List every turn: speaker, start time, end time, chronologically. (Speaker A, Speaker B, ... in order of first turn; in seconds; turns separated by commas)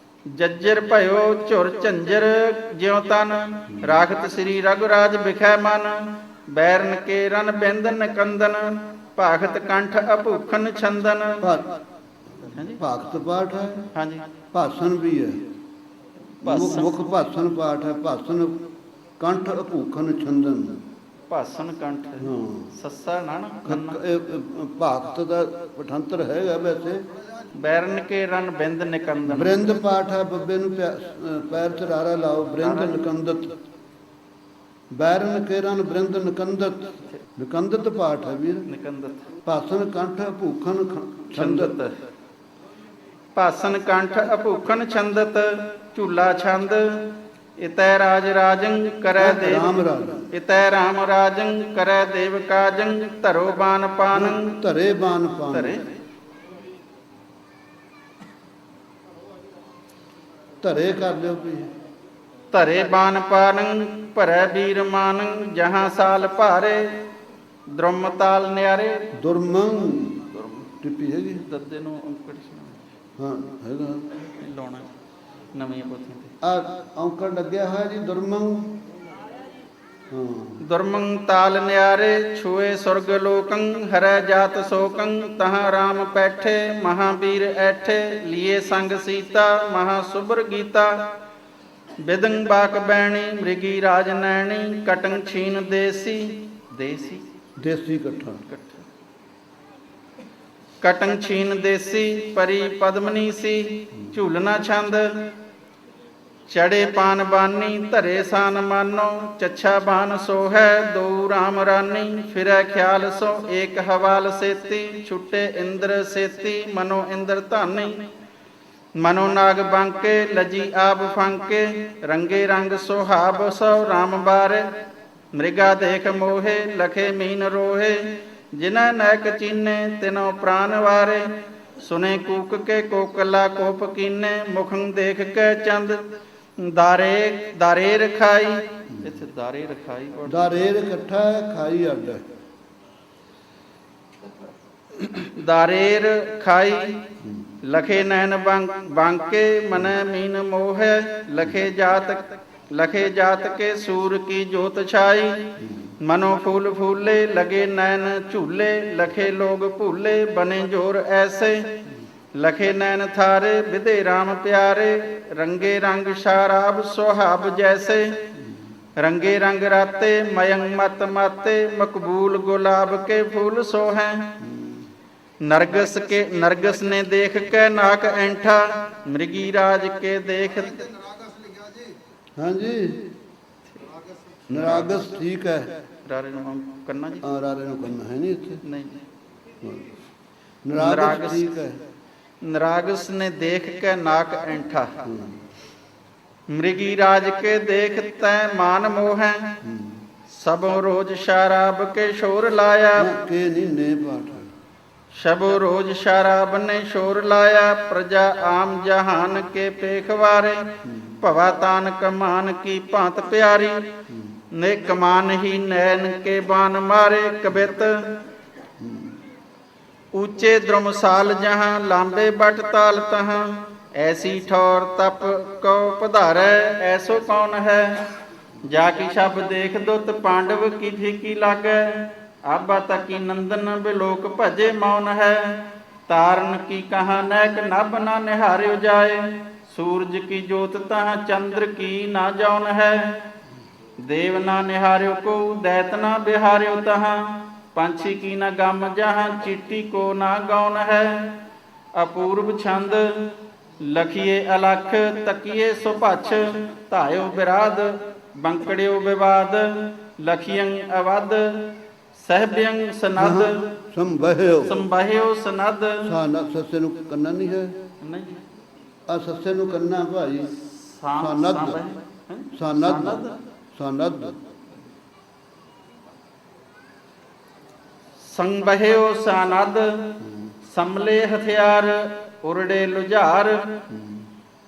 Speaker A: 0.3-11.5, Speaker B: 3.7-4.0, Speaker B: 11.4-11.8, Speaker A: 12.5-12.8, Speaker B: 12.7-13.9, Speaker A: 13.9-14.3, Speaker B: 14.5-15.5, Speaker A: 16.4-17.1, Speaker B: 16.4-18.7, Speaker B: 19.2-20.8, Speaker A: 21.3-24.0, Speaker B: 22.2-22.7, Speaker B: 23.7-27.1, Speaker A: 27.6-29.6, Speaker B: 29.3-33.6, Speaker A: 32.6-33.0, Speaker B: 34.9-38.7, Speaker A: 38.7-39.4, Speaker B: 39.5-41.8, Speaker A: 41.3-42.0, Speaker A: 43.4-49.8, Speaker B: 49.2-50.3, Speaker A: 50.3-54.5, Speaker B: 54.1-55.8, Speaker A: 55.5-56.0, Speaker B: 60.6-61.7, Speaker A: 62.5-67.1, Speaker A: 67.7-69.1, Speaker B: 69.2-71.4, Speaker A: 70.3-70.7, Speaker A: 71.4-72.9, Speaker B: 73.2-74.3, Speaker A: 74.2-74.9, Speaker A: 75.5-76.3, Speaker B: 76.4-78.8, Speaker B: 80.1-80.6, Speaker A: 80.6-91.1, Speaker A: 92.0-97.3, Speaker B: 97.6-98.4, Speaker A: 98.5-98.8, Speaker A: 100.8-105.3, Speaker A: 106.5-118.1, Speaker A: 119.0-124.7, Speaker A: 125.3-140.7, Speaker B: 140.3-142.3, Speaker A: 145.0-147.1, Speaker B: 147.2-147.5, Speaker A: 147.6-168.3, Speaker B: 155.6-155.9, Speaker A: 169.0-174.4, Speaker B: 174.4-174.9, Speaker A: 175.4-181.1, Speaker B: 182.4-183.1, Speaker B: 184.5-185.8, Speaker A: 184.5-185.1, Speaker A: 186.1-187.2, Speaker B: 187.2-188.6, Speaker A: 188.6-189.0, Speaker B: 189.6-189.9, Speaker B: 190.6-191.8, Speaker A: 190.8-191.5, Speaker A: 192.4-195.0, Speaker B: 195.0-195.4, Speaker A: 196.5-199.6, Speaker B: 199.6-200.0, Speaker A: 200.3-203.1, Speaker B: 203.0-204.5, Speaker A: 205.1-213.9, Speaker B: 210.8-211.2, Speaker A: 214.5-218.2, Speaker B: 218.8-219.2, Speaker A: 220.1-228.1, Speaker A: 228.6-243.3, Speaker A: 244.0-251.4, Speaker A: 251.9-263.7, Speaker B: 263.2-264.8, Speaker A: 264.6-266.1, Speaker B: 266.0-267.8, Speaker A: 268.0-268.4, Speaker B: 269.1-270.6, Speaker A: 270.5-273.4, Speaker B: 271.2-271.8, Speaker B: 272.6-274.4, Speaker A: 278.2-283.8, Speaker B: 283.9-284.2